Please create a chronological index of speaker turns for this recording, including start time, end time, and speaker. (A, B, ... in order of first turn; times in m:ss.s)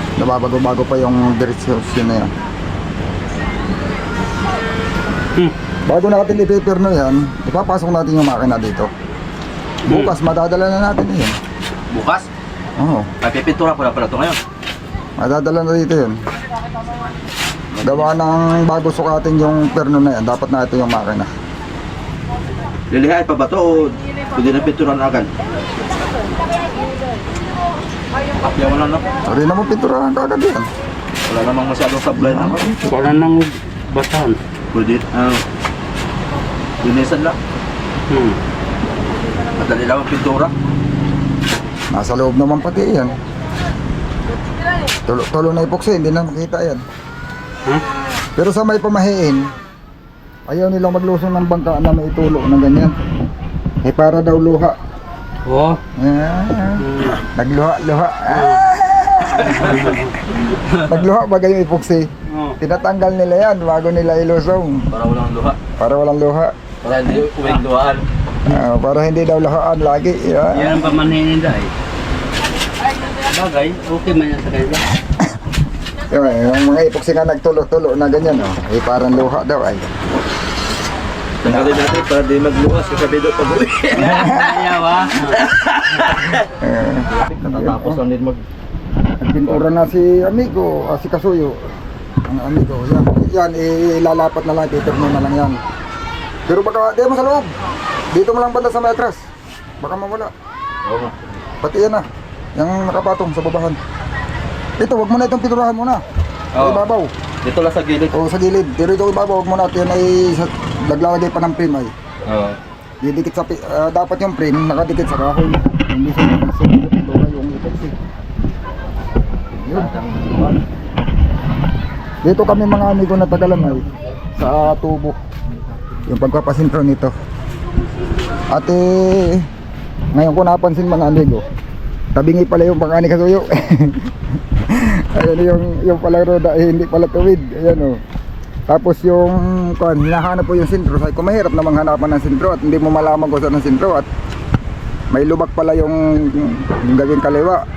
0:00.2-0:02.3 A
0:05.9-0:08.9 A
0:09.9-0:11.4 A
0:11.9-0:12.3 B
0:12.8-0:13.1 A
0:13.2-0:14.4 B
0:15.2-0:16.2 A
0:17.8-0:21.3 A
0:22.9-0:25.3 B
0:28.4-0:29.0 B
0:29.3-0:30.7 A
0:31.2-0:32.7 B
0:32.2-0:33.1 A
0:32.9-0:34.4 C
0:34.7-0:35.4 B
0:36.8-0:37.4 B
0:38.1-0:38.4 C
0:39.6-0:40.5 B
0:41.9-0:43.2 A
0:45.1-0:46.8 A
0:48.4-0:49.5 A
0:50.5-0:53.0 A
0:53.8-0:54.8 A
0:55.5-0:55.8 C
0:56.0-0:59.9 A
0:56.8-0:57.2 C
0:58.3-0:58.6 C
0:59.3-1:00.9 C
1:00.8-1:02.1 A
1:02.3-1:02.6 C
1:02.6-1:04.8 A
1:04.9-1:05.6 B
1:05.8-1:06.5 A
1:06.8-1:08.0 B
1:08.5-1:10.9 A
1:10.5-1:11.7 C
1:13.2-1:14.9 C
1:16.1-1:19.9 A
1:21.4-1:24.4 B
1:21.5-1:21.7 A
1:23.9-1:25.5 C
1:25.4-1:26.3 B
1:26.5-1:28.0 A
1:27.0-1:28.4 B
1:29.2-1:31.6 A
1:32.3-1:35.6 A
1:36.5-1:37.5 A
1:38.1-1:39.2 A
1:39.8-1:40.3 A
1:40.8-1:41.4 B
1:41.6-1:42.0 A
1:42.6-1:43.8 A
1:44.8-1:46.0 A
1:46.6-1:46.8 B
1:46.6-1:47.1 A
1:47.4-1:48.2 B
1:48.1-1:51.9 A
1:52.2-1:52.6 B
1:53.0-1:58.0 A
1:59.6-2:00.0 A
1:59.7-2:00.6 B
2:02.2-2:03.8 A
2:04.4-2:05.2 A
2:06.1-2:07.1 A
2:08.5-2:09.5 A
2:10.1-2:11.4 A
2:12.2-2:18.0 A
2:18.7-2:24.1 A
2:25.1-2:27.6 A